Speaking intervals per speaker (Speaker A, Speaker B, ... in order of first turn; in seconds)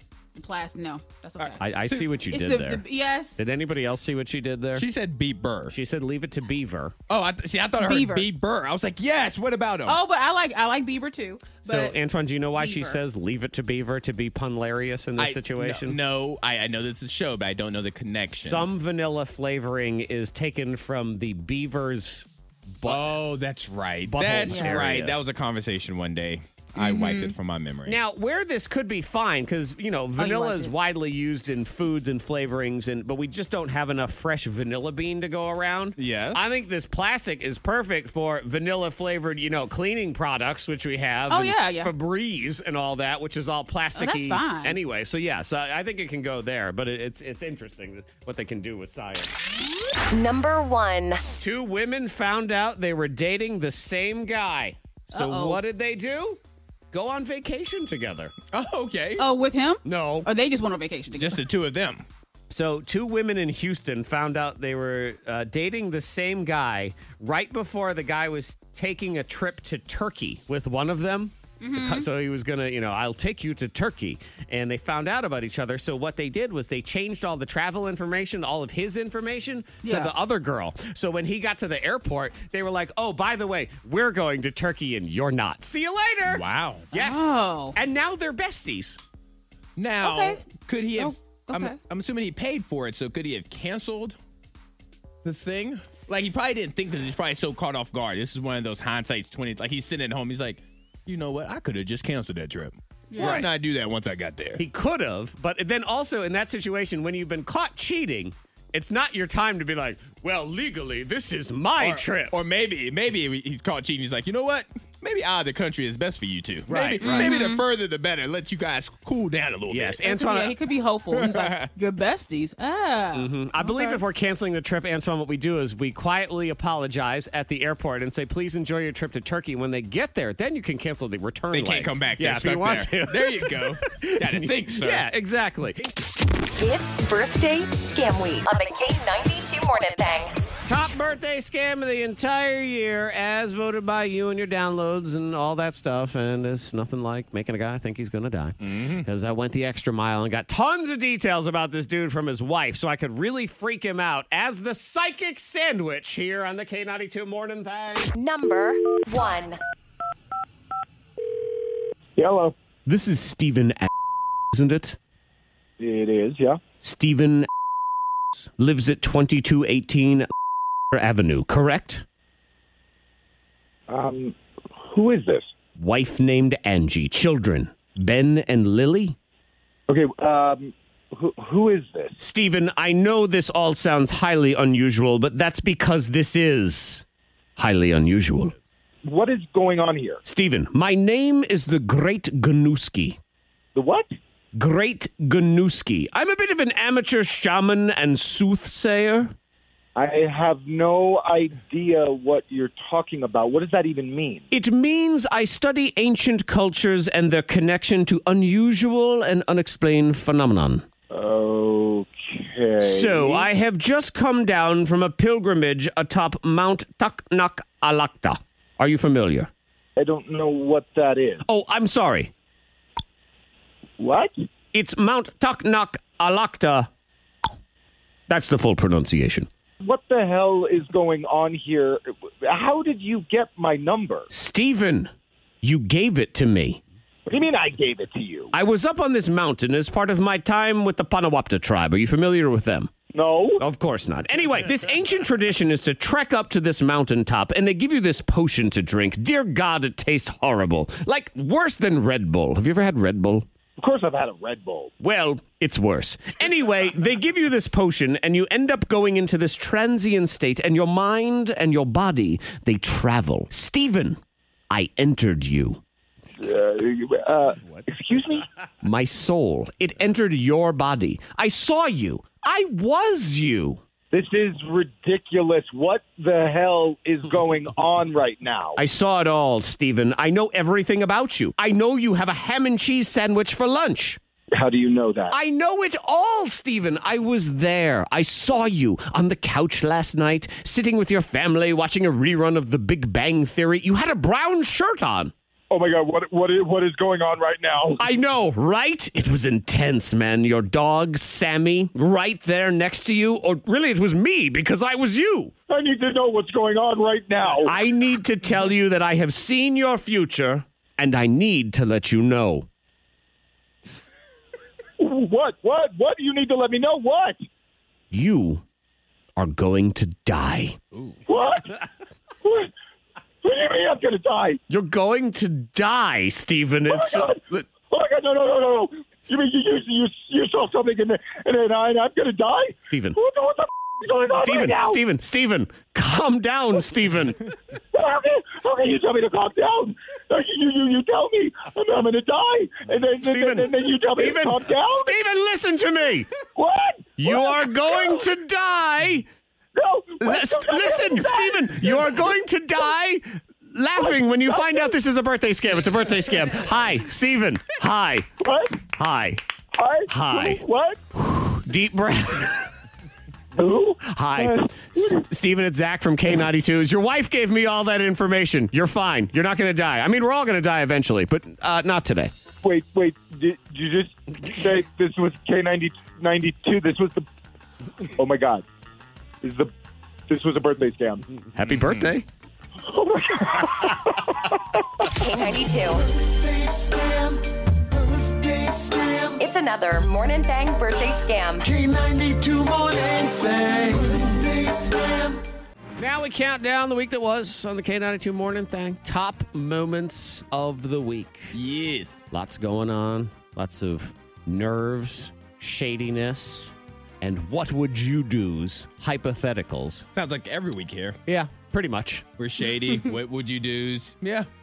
Speaker A: 0.3-3.5, 7.8-8.3, 9.9-12.0, 12.6-13.0, 24.5-24.8, 26.8-27.3, 30.2-30.7, 41.3-41.9, 44.0-44.8, 55.1-55.6, 59.2-61.4, 71.6-72.1, 79.8-80.1, 86.9-87.8, 90.0-90.4, 91.0-91.8, 103.1-103.5, 117.0-117.6, 120.0-124.0
Speaker B: 1.6-2.8, 3.4-4.9, 5.7-7.0, 11.6-16.0, 18.3-22.3, 22.8-23.2, 24.1-25.2, 27.9-49.3, 51.4-56.4, 56.9-58.3, 59.9-60.3, 62.5-89.0, 103.2-103.5, 104.6-112.4, 116.7-117.3, 119.7-120.5, 123.1-135.9, 140.7-158.1, 162.9-163.9, 164.5-165.0, 166.8-167.5, 168.3-170.3, 170.9-172.0, 175.8-179.2, 182.2-187.1, 187.6-188.6, 190.2-193.2, 194.6-199.3, 204.5-210.9, 212.8-219.5, 221.4-222.3, 224.7-226.9, 228.3-229.5, 234.3-235.1, 235.6-236.8, 238.5-242.9, 243.6-253.5, 255.0-264.2, 264.7-265.8, 268.8-273.8, 278.8-284.2, 285.3-295.3, 298.0-305.5, 307.6-312.7, 318.1-318.6, 319.4-320.8, 324.7-327.7, 332.9-333.2, 334.3-337.4, 343.2-346.3, 347.2-349.3, 350.2-358.3, 358.9-359.4, 360.1-360.6, 361.1-362.7, 364.0-372.3, 381.5-382.3, 396.0-401.6, 402.3-410.1, 411.3-412.2
Speaker C: 4.8-5.8, 7.1-10.0, 15.2-18.7, 22.9-28.0, 36.0-36.4, 58.5-59.3, 61.2-62.1, 86.3-86.9, 89.8-94.2, 95.2-104.6, 111.8-120.0, 121.1-121.7, 131.5-135.1, 148.6-149.1, 381.7-382.1, 401.5-402.2, 410.1-411.2, 412.4-414.5
Speaker D: 50.1-51.2, 136.6-140.4, 158.1-159.6, 385.0-386.0, 389.4-391.7
Speaker E: 162.2-162.6, 165.8-166.6, 173.9-175.5, 179.9-182.1, 189.1-190.2, 193.8-194.1, 199.9-204.5, 211.1-213.5, 220.0-221.4, 224.0-224.3, 229.8-234.3, 237.3-238.5, 243.1-243.6, 253.8-254.9, 266.4-268.5, 274.1-278.8, 284.5-285.4, 295.7-298.0, 305.7-307.8, 315.0-317.4, 321.3-321.8, 322.4-322.7, 323.4-324.6, 326.9-335.0, 337.9-345.2, 346.6-348.3, 349.8-352.4, 354.0-354.9, 358.4-358.8, 359.8-361.0, 363.6-365.2, 372.6-377.3, 378.0-378.6, 379.4-379.7, 380.3-381.4, 382.8-384.8
Speaker F: 386.1-389.4, 391.6-395.4